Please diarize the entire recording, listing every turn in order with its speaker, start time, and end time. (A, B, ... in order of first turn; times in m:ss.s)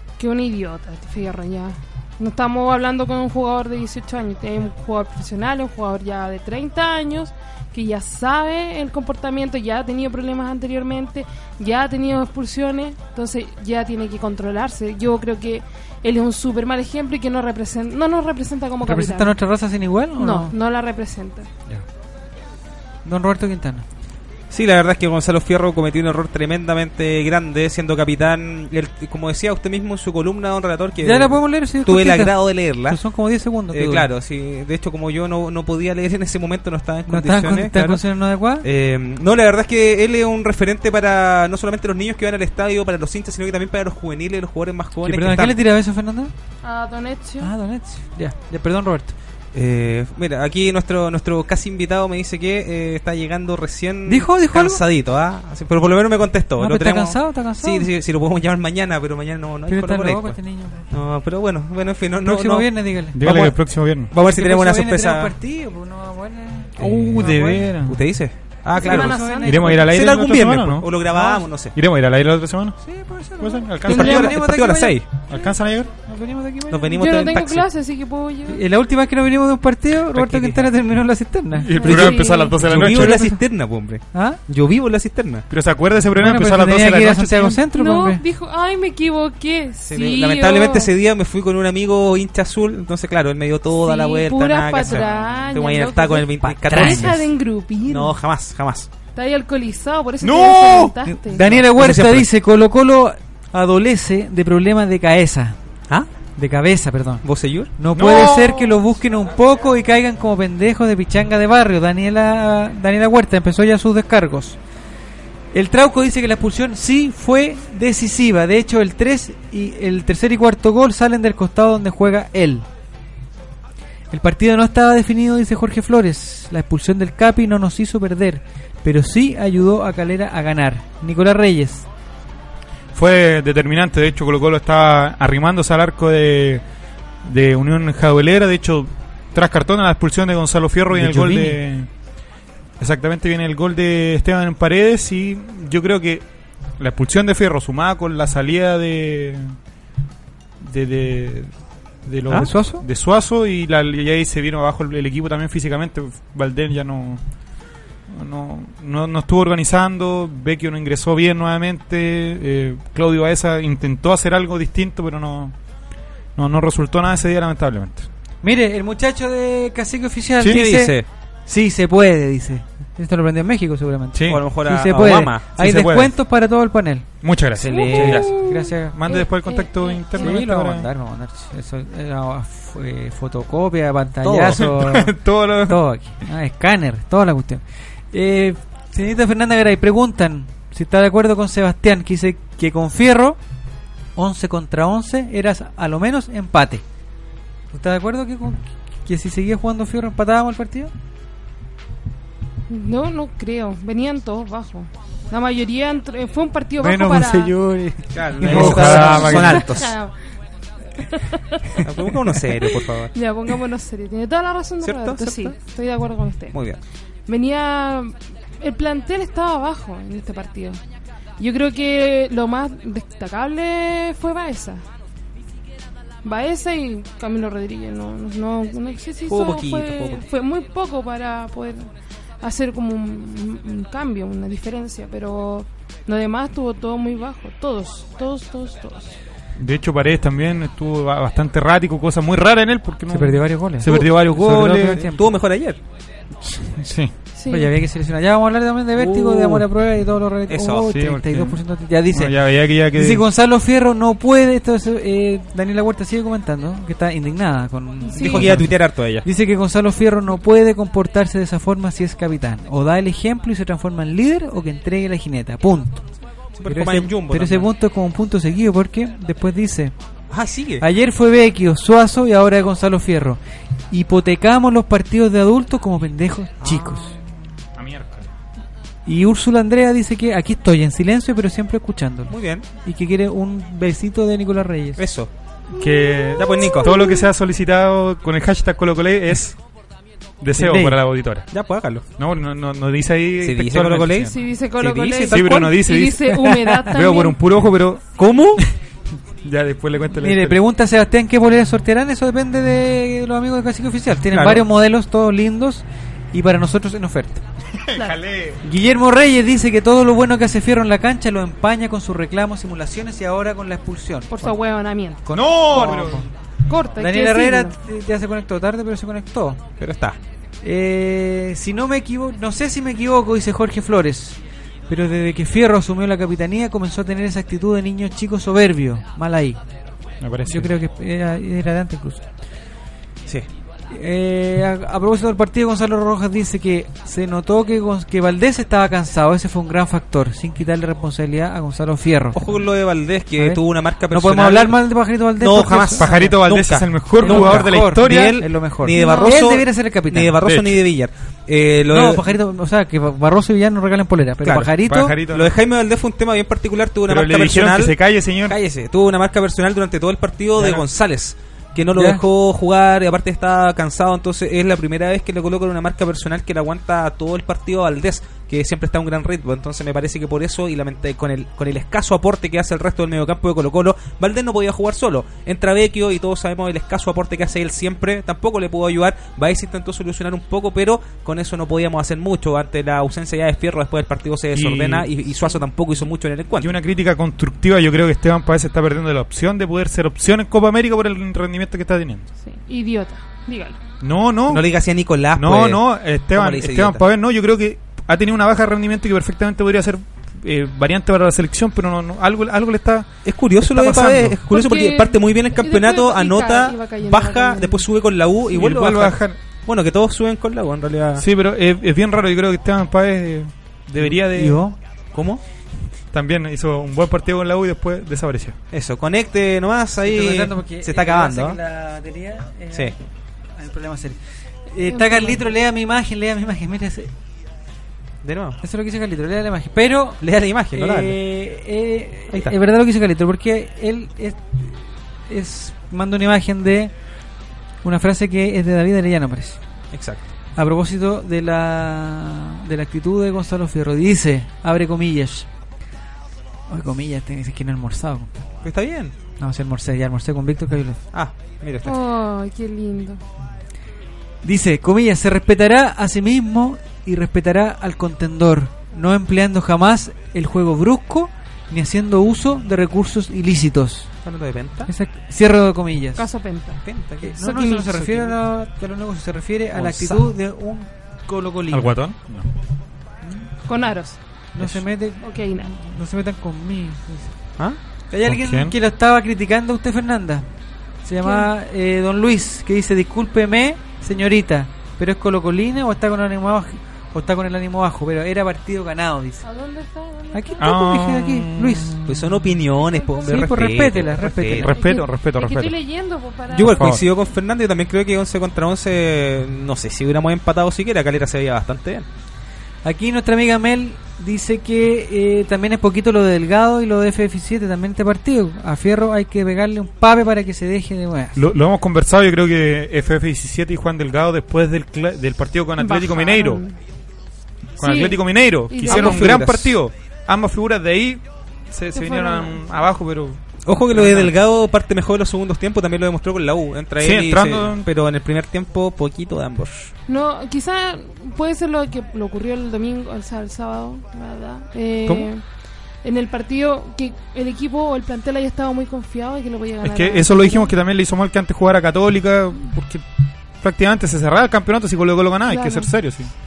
0:00.2-0:19.4 A
0:18.8-0:20.6 B
0:20.2-0:21.5 A
0:23.1-0:23.9 B
0:24.5-0:33.0 C
0:31.0-0:34.1 B
0:33.7-0:38.0 C
0:37.1-0:38.7 B
0:38.6-0:45.6 C
0:45.0-0:46.3 B
0:46.6-0:47.5 A
0:47.4-0:49.2 B
0:49.5-1:03.6 C
0:54.1-0:54.8 B
0:56.6-0:57.9 B
0:59.7-1:00.9 B
1:02.2-1:03.4 B
1:03.2-1:04.1 D
1:04.1-1:05.3 C
1:04.2-1:07.7 B
1:06.8-1:11.7 C
1:06.8-1:08.0 D
1:08.7-1:09.8 A
1:08.8-1:09.8 B
1:09.4-1:11.2 D
1:11.2-1:11.4 B
1:11.7-1:12.8 D
1:12.8-1:15.3 B
1:13.4-1:14.4 D
1:13.9-1:15.1 C
1:15.3-1:15.9 D
1:16.0-1:17.4 B
1:16.7-1:17.7 C
1:17.0-1:18.6 A
1:18.5-1:21.7 B
1:20.1-1:20.7 C
1:21.6-1:23.3 D
1:21.7-1:22.6 A
1:21.8-1:25.5 C
1:22.8-1:23.4 B
1:24.1-1:24.4 B
1:25.5-1:27.6 D
1:26.2-1:28.2 B
1:27.7-1:30.9 A
1:29.8-1:37.3 C
1:33.7-1:38.2 A
1:36.4-1:37.2 B
1:37.9-1:38.9 C
1:39.1-1:41.5 A
1:40.2-1:41.0 D
1:41.1-1:45.6 B
1:41.6-1:42.3 C
1:46.4-1:47.2 B
1:47.2-1:47.7 C
1:47.8-1:54.6 B
1:47.9-1:48.5 D
1:48.4-1:48.8 A
1:55.5-2:02.7 B
2:04.1-2:11.9 B
2:13.0-2:16.6 D
2:17.2-2:21.9 D
2:20.9-2:21.6 B
2:22.8-2:26.2 D
2:26.8-2:29.6 D
2:30.6-2:31.5 D
2:32.1-2:37.2 D
2:32.3-2:32.8 B
2:38.1-2:45.5 D
2:46.4-2:48.1 D
2:48.4-2:57.1 B
2:50.5-2:51.1 C
2:54.2-2:54.4 D
2:54.3-2:55.4 C
2:55.6-2:56.1 D
2:57.2-3:00.9 D
2:57.6-2:58.3 C
2:57.7-3:00.4 A
2:57.9-2:59.2 B
3:00.2-3:13.4 B
3:04.2-3:04.7 C
3:04.6-3:05.8 D
3:14.2-3:16.8 B
3:17.7-3:20.9 B
3:22.7-3:27.6 A
3:26.8-3:29.6 B
3:28.1-3:30.0 C
3:28.4-3:29.7 D
3:29.0-3:30.1 A
3:31.0-3:31.6 A
3:31.8-3:33.1 C
3:32.8-3:36.6 A
3:34.8-3:35.6 C
3:36.5-3:36.8 C
3:37.3-3:40.8 A
3:41.4-3:44.8 A
3:46.2-3:59.2 A
3:49.3-3:50.3 C
3:59.6-4:05.1 D
4:03.1-4:05.2 B
4:03.9-4:05.8 C
4:06.4-4:07.1 D
4:07.4-4:07.7 A
4:07.5-4:18.7 B
4:09.0-4:09.7 C
4:10.5-4:10.9 C
4:10.9-4:13.2 D
4:18.0-4:18.6 A
4:18.2-4:19.3 C
4:19.2-4:26.0 B
4:26.6-4:27.7 C
4:26.7-4:30.0 B
4:30.3-4:30.8 C
4:30.8-4:33.4 B
4:33.9-4:37.2 B
4:36.6-4:37.2 C
4:37.8-4:38.3 D
4:39.1-4:45.0 B
4:42.3-4:42.7 C
4:45.0-4:45.3 C
4:45.7-4:49.6 D
4:45.8-4:46.1 A
4:46.4-4:47.1 C
4:50.4-4:51.5 D
4:50.6-4:51.0 C
4:51.5-4:52.0 C
4:52.2-4:54.4 D
4:53.4-4:55.8 C
4:54.3-4:57.4 A
4:55.3-4:58.7 D
4:58.2-4:58.6 C
4:59.4-5:00.6 D
5:00.2-5:07.4 B
5:04.3-5:04.6 C
5:07.8-5:08.6 D
5:08.6-5:14.4 B
5:14.3-5:16.1 A
5:15.3-5:16.3 B
5:15.3-5:16.2 D
5:16.7-5:17.8 A
5:17.0-5:19.6 B
5:19.8-5:20.2 C
5:20.6-5:24.4 B
5:24.9-5:29.6 B
5:30.2-5:30.7 D
5:30.5-5:32.3 B
5:33.9-5:42.6 B
5:42.4-5:44.8 C
5:43.4-5:46.3 B
5:45.4-5:52.3 C
5:46.0-5:48.5 D
5:47.2-5:50.4 B
5:48.9-5:49.4 A
5:50.4-5:50.8 D
5:51.9-5:55.2 B
5:54.4-5:54.7 C
5:54.6-5:55.5 D
5:55.2-6:26.8 C
5:57.1-5:58.6 D
6:00.6-6:00.8 D
6:02.0-6:02.2 B
6:24.5-6:25.1 D
6:26.6-6:32.3 D
6:32.4-6:33.8 A
6:34.0-6:34.6 D
6:34.5-6:37.0 C
6:35.4-6:44.4 D
6:43.2-6:51.2 C
6:44.5-6:47.9 A
6:48.5-6:49.4 D
6:51.2-6:54.6 D
6:54.0-6:54.8 B
6:55.1-6:55.4 C
6:56.1-6:58.6 D
6:58.7-7:01.6 C
7:00.0-7:03.0 B
7:03.6-7:04.2 B
7:04.7-7:07.1 B
7:04.8-7:05.4 A
7:08.2-7:08.6 C
7:08.6-7:10.2 B
7:10.2-7:11.2 C
7:10.7-7:16.9 B
7:12.3-7:12.6 C
7:17.8-7:19.6 B
7:19.9-7:20.2 C
7:20.6-7:25.5 B
7:26.7-7:28.4 B
7:28.6-7:29.2 C
7:29.4-7:31.0 B
7:31.1-7:32.0 C
7:31.8-7:33.2 A
7:34.4-7:44.1 B
7:44.2-7:44.9 C
7:44.9-7:46.2 B
7:46.2-7:46.8 A
7:46.8-7:48.4 C
7:47.2-7:52.0 B
7:47.4-7:47.9 A
7:49.8-7:50.2 D
7:51.7-7:52.5 D
7:53.6-7:54.2 A
7:54.6-7:57.4 B
7:55.2-7:55.7 A
7:58.1-8:00.4 B
7:58.2-7:58.8 D
8:01.0-8:09.4 B
8:01.2-8:01.5 A
8:09.4-8:10.7 A
8:10.3-8:12.0 B
8:10.6-8:12.5 D
8:12.1-8:14.7 C
8:12.8-8:13.5 A
8:13.3-8:14.7 B
8:14.4-8:15.8 D
8:14.6-8:17.0 A
8:16.5-8:22.1 C
8:16.7-8:17.0 D
8:22.8-8:31.4 B
8:31.4-8:36.6 D
8:35.8-8:36.8 A
8:37.8-8:44.4 D
8:37.8-8:39.3 A
8:38.9-8:39.8 C
8:41.9-8:42.7 A
8:43.6-8:49.9 C
8:47.0-8:47.9 D
8:50.1-8:55.4 A
8:56.0-9:00.7 A
8:59.8-9:03.0 D
9:03.6-9:06.3 D
9:05.5-9:05.9 A